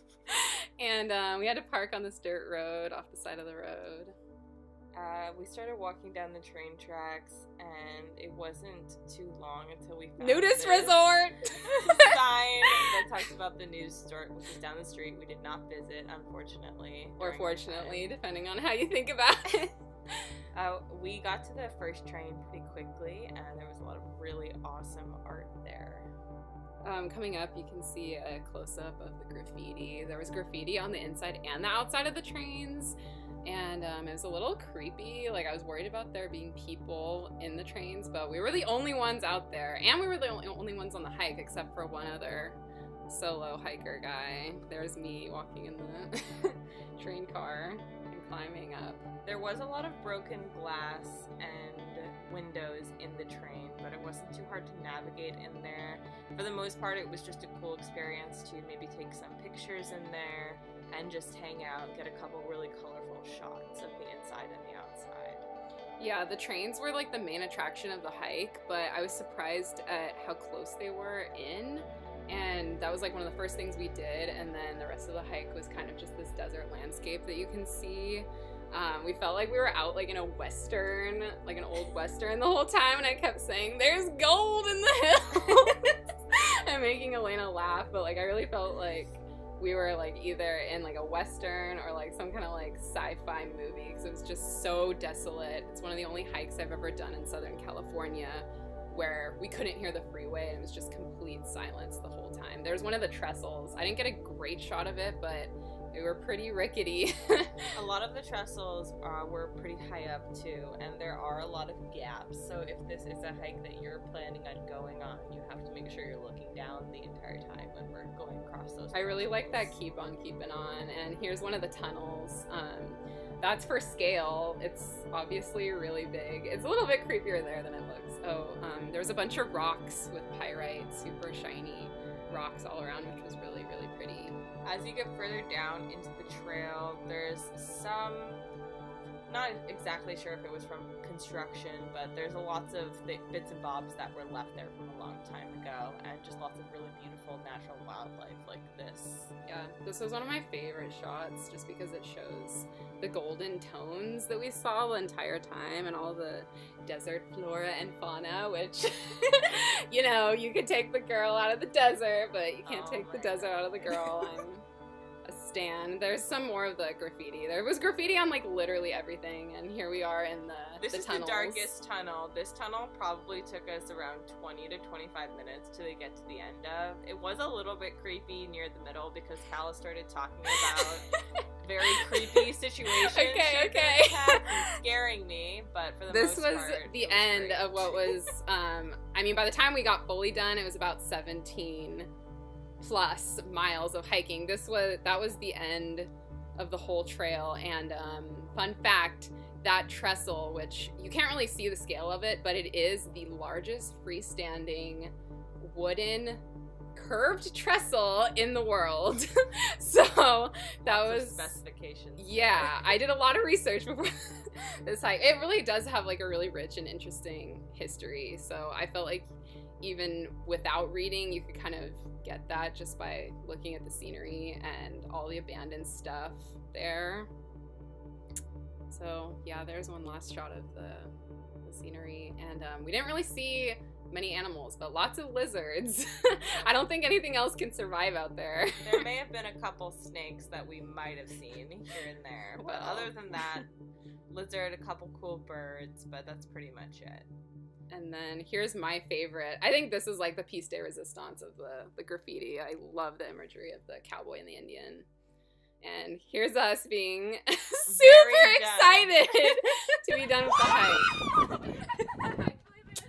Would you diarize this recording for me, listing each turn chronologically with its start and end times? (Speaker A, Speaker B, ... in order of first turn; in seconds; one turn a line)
Speaker A: 0.3-4.1
Speaker B: 4.9-11.1
Speaker A: 10.2-12.1
Speaker B: 11.8-18.1
Speaker A: 17.2-19.7
Speaker B: 20.5-26.1
Speaker A: 26.8-49.0
Speaker B: 49.2-65.5
Speaker A: 66.0-107.5
Speaker B: 107.7-119.7
Speaker A: 118.9-134.4
Speaker B: 134.6-138.4
Speaker B: 139.3-149.3
Speaker A: 149.5-164.6
Speaker B: 162.6-164.4
Speaker A: 165.2-171.7
Speaker B: 170.8-181.1
Speaker A: 180.6-180.9
Speaker B: 181.6-188.3
Speaker A: 181.9-184.8
Speaker A: 186.1-192.1
Speaker A: 192.8-206.4
Speaker A: 206.9-211.5
Speaker B: 210.8-213.0
Speaker A: 212.2-219.3
Speaker A: 219.8-227.3
Speaker A: 228.9-231.1
Speaker A: 231.6-239.1
Speaker B: 238.8-243.7
Speaker A: 242.6-243.6
Speaker B: 244.3-247.3
Speaker A: 247.9-255.1
Speaker A: 255.8-261.1
Speaker B: 257.9-259.6